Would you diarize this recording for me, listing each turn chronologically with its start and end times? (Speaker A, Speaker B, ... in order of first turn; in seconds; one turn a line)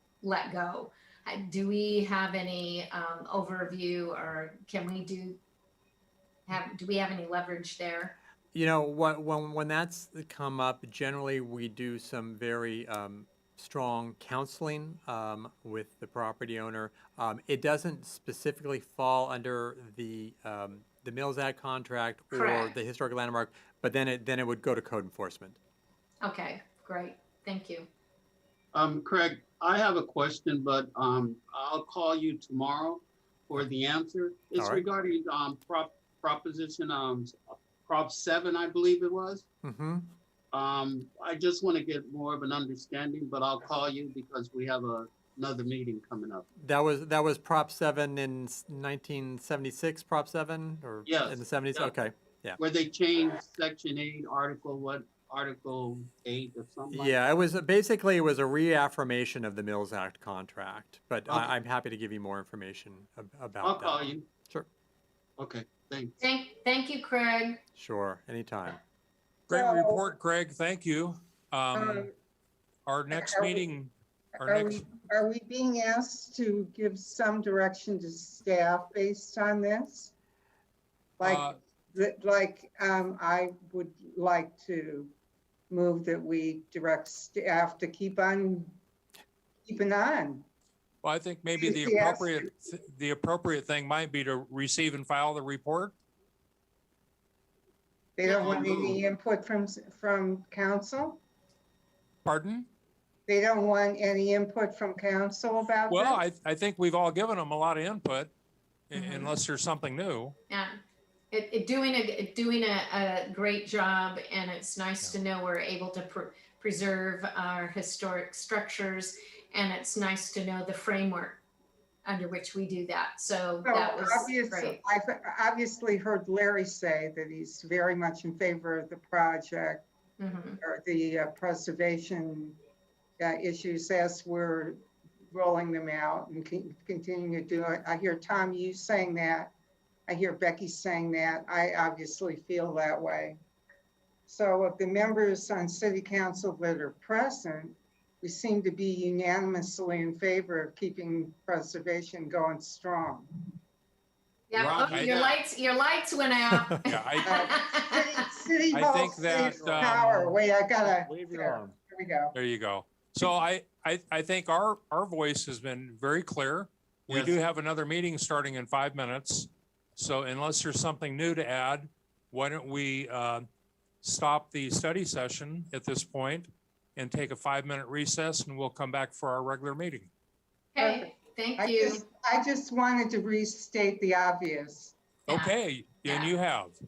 Speaker A: 0.2-5.4
Speaker A: 6.5-8.2
Speaker B: 8.5-25.6
Speaker A: 22.3-22.7
Speaker A: 26.2-27.9
Speaker C: 28.7-39.5
Speaker B: 34.6-34.8
Speaker B: 39.6-40.1
Speaker C: 40.5-46.5
Speaker B: 46.6-52.6
Speaker C: 51.1-51.9
Speaker C: 52.6-57.1
Speaker B: 56.9-64.7
Speaker C: 63.6-64.2
Speaker C: 65.4-66.2
Speaker A: 66.2-67.6
Speaker B: 67.8-68.8
Speaker D: 69.5-72.1
Speaker E: 69.5-70.1
Speaker E: 71.7-72.1
Speaker D: 72.9-74.9
Speaker E: 73.1-73.7
Speaker E: 74.4-80.1
Speaker E: 81.2-85.1
Speaker D: 81.2-81.6
Speaker E: 85.7-88.8
Speaker E: 89.7-90.5
Speaker D: 91.0-96.0
Speaker E: 91.6-92.5
Speaker E: 98.2-101.2
Speaker C: 98.2-99.0
Speaker D: 102.2-102.7
Speaker E: 103.3-106.2
Speaker D: 105.9-108.3
Speaker D: 108.9-110.4
Speaker A: 108.9-109.3
Speaker A: 110.5-110.8
Speaker A: 111.3-121.4
Speaker A: 122.0-124.8
Speaker E: 123.7-129.9
Speaker A: 130.2-130.6
Speaker E: 130.6-132.6
Speaker E: 133.2-134.8
Speaker E: 135.3-139.5
Speaker E: 140.1-143.4
Speaker E: 144.3-153.5
Speaker A: 154.5-158.3
Speaker D: 154.5-155.2
Speaker C: 154.8-155.4
Speaker D: 156.9-157.4
Speaker E: 157.2-162.3
Speaker D: 158.7-160.3
Speaker B: 159.6-159.9
Speaker B: 160.8-161.7
Speaker D: 162.3-173.5
Speaker C: 167.1-167.4
Speaker D: 174.0-180.1
Speaker A: 180.7-182.0
Speaker E: 180.8-184.9
Speaker D: 185.3-186.8
Speaker A: 185.3-185.5
Speaker A: 186.1-186.3